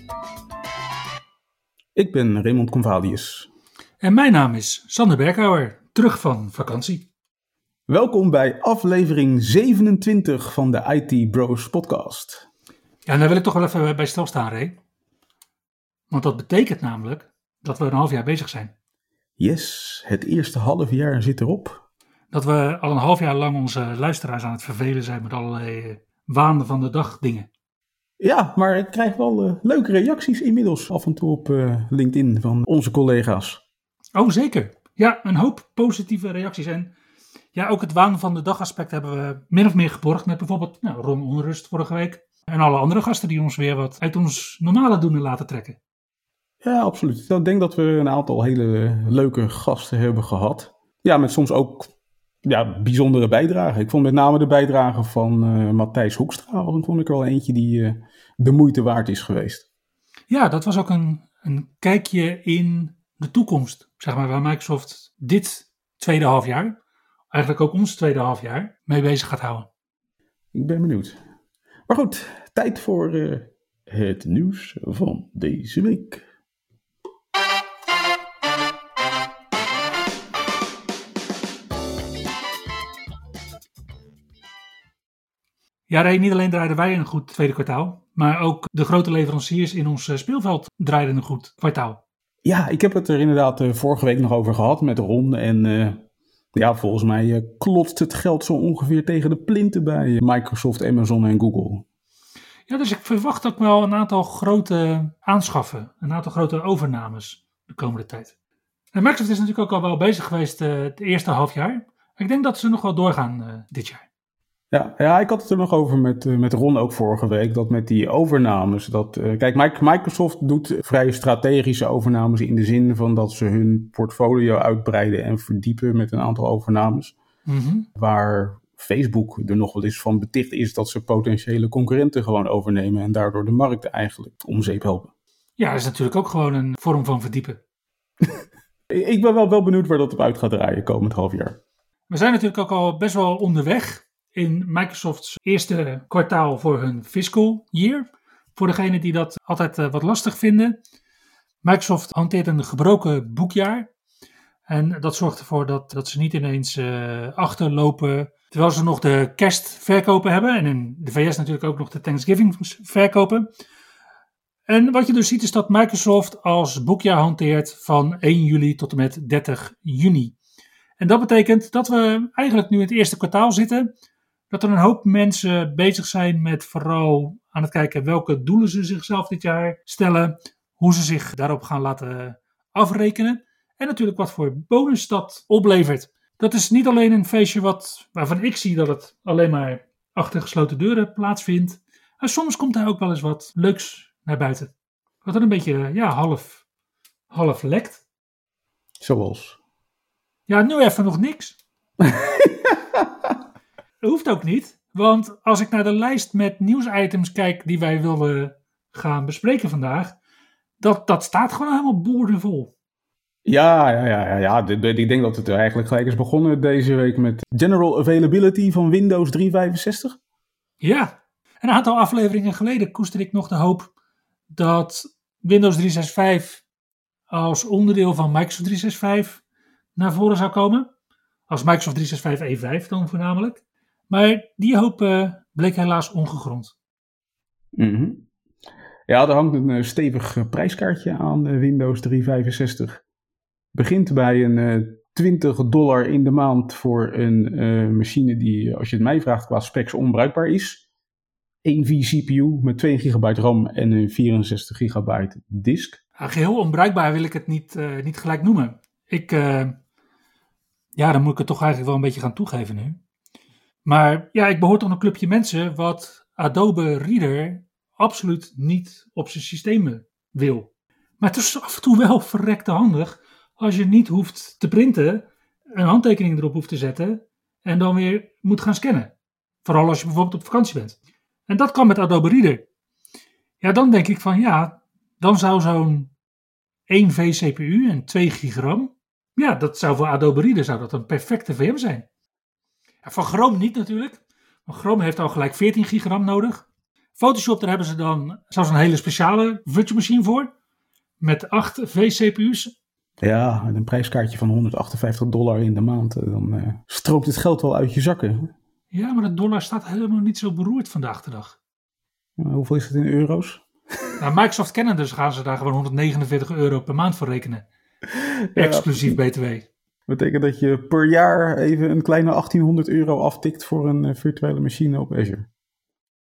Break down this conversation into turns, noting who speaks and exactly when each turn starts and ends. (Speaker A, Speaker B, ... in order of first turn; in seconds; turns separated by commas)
Speaker A: 1.9-3.5, Speaker B: 4.0-7.0, Speaker A: 7.9-12.5, Speaker B: 13.1-14.8, Speaker B: 16.1-18.7, Speaker A: 19.4-21.8, Speaker B: 22.3-27.5, Speaker A: 28.2-33.6, Speaker B: 34.1-36.9, Speaker B: 37.5-45.8, Speaker A: 46.6-51.9, Speaker A: 52.4-59.6, Speaker B: 60.3-66.8, Speaker B: 67.3-69.7, Speaker A: 70.5-71.2, Speaker A: 71.9-76.2, Speaker B: 85.9-92.0, Speaker A: 92.4-101.8, Speaker B: 102.7-108.3, Speaker B: 108.9-114.0, Speaker A: 114.7-127.2, Speaker B: 127.5-127.9, Speaker A: 128.0-135.1, Speaker B: 135.6-137.6, Speaker A: 138.9-141.6, Speaker B: 142.1-150.8, Speaker B: 151.6-153.9, Speaker B: 154.7-163.5, Speaker B: 164.7-170.3, Speaker B: 171.0-173.9, Speaker B: 174.5-194.7, Speaker B: 195.2-196.6, Speaker B: 197.3-198.0, Speaker A: 199.0-199.6, Speaker B: 200.5-201.6, Speaker A: 202.0-203.3, Speaker B: 204.0-210.2, Speaker B: 210.8-212.7, Speaker A: 213.4-220.2, Speaker B: 220.8-223.9, Speaker B: 224.5-226.6, Speaker B: 227.3-229.4, Speaker B: 229.9-230.9, Speaker B: 231.5-236.7, Speaker A: 237.8-238.3, Speaker A: 239.1-243.0, Speaker A: 243.7-250.8, Speaker A: 251.6-256.0, Speaker B: 256.2-259.8, Speaker B: 260.9-263.0, Speaker B: 263.8-270.7, Speaker B: 271.2-279.1, Speaker B: 279.6-281.0, Speaker B: 281.5-282.6, Speaker B: 283.6-286.1, Speaker B: 286.9-292.1, Speaker B: 293.0-300.5, Speaker B: 301.2-302.7, Speaker A: 303.2-308.5, Speaker B: 308.9-311.6, Speaker A: 312.4-314.2, Speaker B: 314.2-317.6, Speaker A: 318.5-319.2, Speaker B: 318.5-319.7, Speaker A: 320.1-325.5